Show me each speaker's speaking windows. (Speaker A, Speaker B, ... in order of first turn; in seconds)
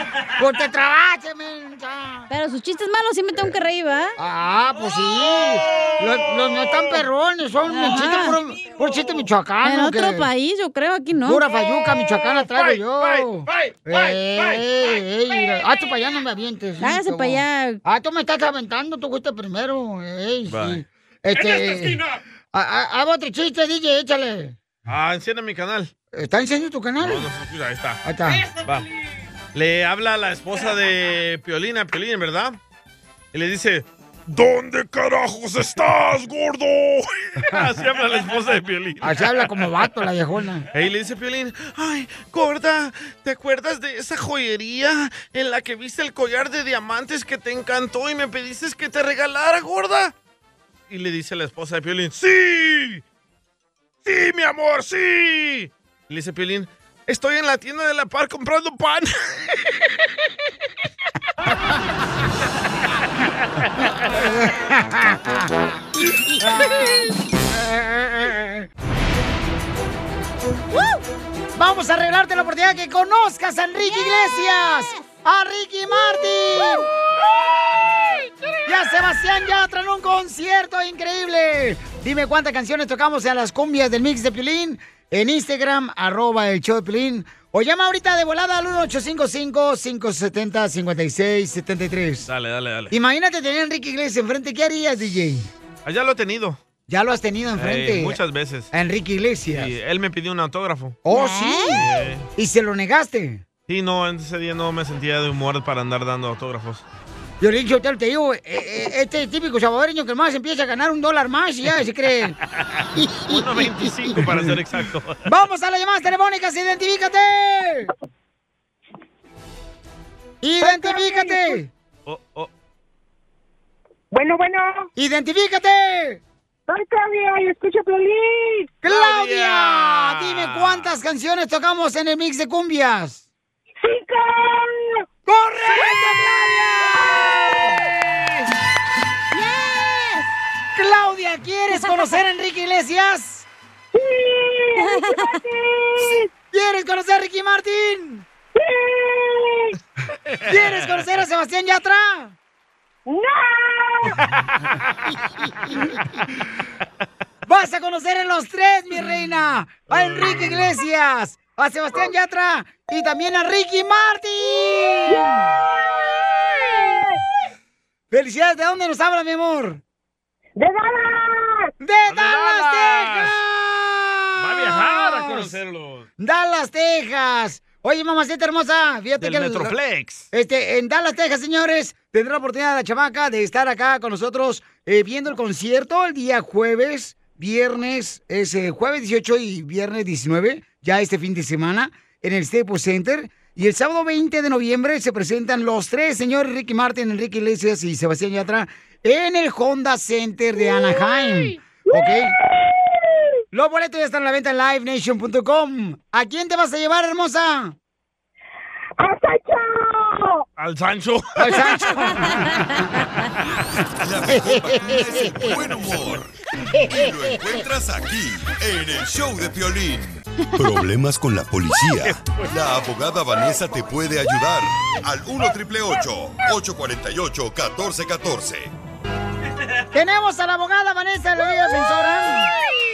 Speaker A: 0.4-2.3, 4.2-10.3, 11.2-24.6, 26.1-27.3, 28.0-28.6, 39.0-40.7, 64.1-65.7, 66.4-68.7, 71.6-76.9, 78.7-92.3, 92.9-95.5, 96.9-98.2, 98.7-99.8, 101.1-103.5, 107.4-112.4, 113.0-113.6, 114.1-114.6, 115.3-117.9, 120.4-121.7, 125.0-126.2, 128.8-133.2, 135.3-137.7, 140.8-143.5, 146.5-148.2, 150.5-152.3, 157.5-165.4, 168.1-169.8, 171.8-175.6, 176.2-179.8, 180.3-202.3, 203.5-207.8, 211.4-212.6, 214.3-215.5, 229.9-232.5
Speaker B: 2.3-4.1, 7.7-8.4, 9.6-11.4, 16.8-17.8, 70.7-71.0, 73.9-75.0, 101.1-101.8, 139.3-140.3, 144.8-145.3, 212.2-212.8
Speaker C: 5.7-6.7, 12.6-14.0, 20.5-20.8, 24.9-25.9, 27.0-28.9, 29.5-32.6, 33.3-39.3, 40.7-50.1, 50.9-53.0, 54.0-60.0, 92.3-92.9, 95.8-96.6, 97.6-98.7, 99.5-101.0, 101.7-102.3, 103.7-106.8, 112.8-115.2, 122.1-122.5, 128.8-130.9, 150.4-151.1, 154.1-154.8, 159.9-160.7, 172.1-173.4, 174.4-176.1, 179.2-180.3, 210.6-211.6, 222.0-222.5
Speaker D: 120.7-121.4, 124.1-124.8, 126.7-128.7, 133.8-134.9, 137.1-137.7, 143.9-146.3, 148.6-149.7, 153.1-154.1, 165.1-167.2, 170.6-171.7, 209.0-210.3
Speaker E: 214.0-228.7